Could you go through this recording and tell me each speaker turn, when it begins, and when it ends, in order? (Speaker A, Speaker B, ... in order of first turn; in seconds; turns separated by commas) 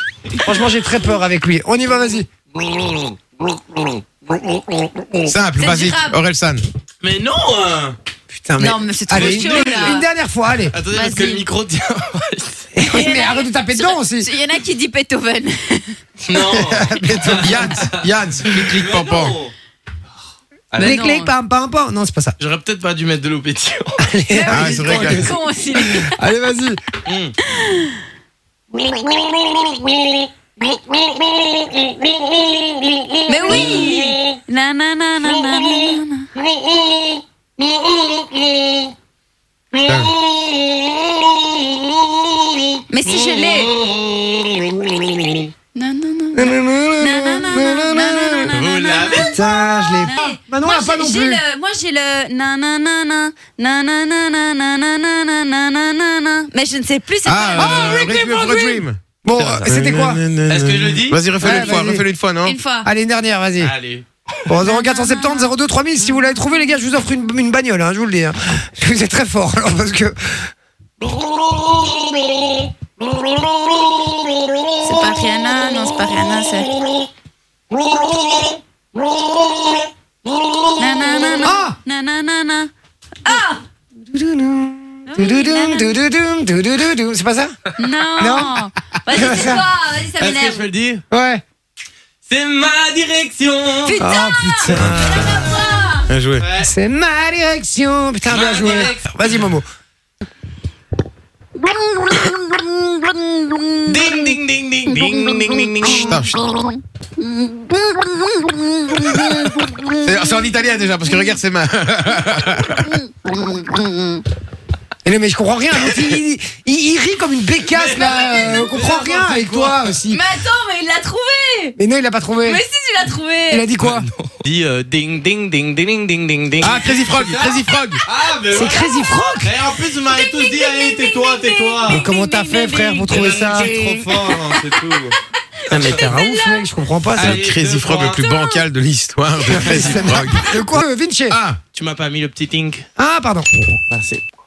Speaker A: 0.4-2.3, Speaker B: 2.6-5.1, Speaker C: 5.2-6.7, Speaker D: 5.6-6.2, Speaker B: 7.0-8.0, Speaker A: 8.3-10.8, Speaker D: 8.6-10.0, Speaker B: 9.1-10.0, Speaker B: 10.7-12.7, Speaker D: 10.9-11.4, Speaker A: 12.7-14.3, Speaker D: 12.8-16.0, Speaker B: 16.3-19.5, Speaker A: 16.3-17.8, Speaker C: 17.3-19.4, Speaker B: 20.7-21.0, Speaker D: 20.8-21.3, Speaker A: 20.8-22.4, Speaker B: 22.4-24.1, Speaker A: 24.0-26.8, Speaker D: 24.3-26.1, Speaker C: 24.5-25.3, Speaker B: 27.1-27.4, Speaker D: 27.4-28.0, Speaker D: 33.2-36.3, Speaker C: 39.9-40.1, Speaker D: 42.9-43.7, Speaker D: 45.7-58.8, Speaker A: 46.3-48.5, Speaker B: 48.5-49.4, Speaker A: 49.3-51.4, Speaker C: 57.2-62.6, Speaker A: 57.6-58.3, Speaker A: 59.2-60.2, Speaker B: 60.5-61.2, Speaker A: 61.4-62.1, Speaker D: 61.4-61.8, Speaker D: 62.4-62.9, Speaker A: 62.8-63.7, Speaker B: 63.6-64.0, Speaker A: 64.5-70.5, Speaker D: 64.6-65.5, Speaker D: 74.8-76.7, Speaker D: 80.8-82.7, Speaker A: 81.4-81.8, Speaker D: 83.2-83.6, Speaker A: 84.1-87.5, Speaker D: 85.1-85.9, Speaker D: 87.8-90.7, Speaker A: 88.2-88.6, Speaker A: 89.1-89.7, Speaker B: 90.2-91.0, Speaker A: 91.1-91.4, Speaker B: 92.3-94.0, Speaker D: 93.8-96.1, Speaker A: 94.0-95.6, Speaker C: 94.7-95.2, Speaker C: 96.1-96.5, Speaker B: 96.4-96.7, Speaker A: 96.6-99.7, Speaker B: 98.3-99.4, Speaker D: 101.6-104.3, Speaker B: 103.9-106.2, Speaker D: 104.9-110.4, Speaker C: 105.9-106.3, Speaker C: 110.0-112.9, Speaker D: 112.8-114.2, Speaker A: 115.0-120.2, Speaker B: 117.7-120.0, Speaker D: 117.9-118.3, Speaker D: 120.1-121.8, Speaker A: 121.8-122.6, Speaker D: 122.4-123.7, Speaker A: 123.5-124.1, Speaker B: 123.8-132.1, Speaker C: 126.6-128.0, Speaker A: 128.5-129.6, Speaker D: 130.0-134.6, Speaker A: 131.9-133.7, Speaker B: 133.1-135.2, Speaker D: 135.6-136.7, Speaker A: 135.7-137.4, Speaker B: 137.2-138.2, Speaker C: 137.2-141.6, Speaker D: 138.0-138.7, Speaker A: 139.4-141.4, Speaker B: 141.7-142.8, Speaker A: 143.0-143.5, Speaker B: 143.9-144.2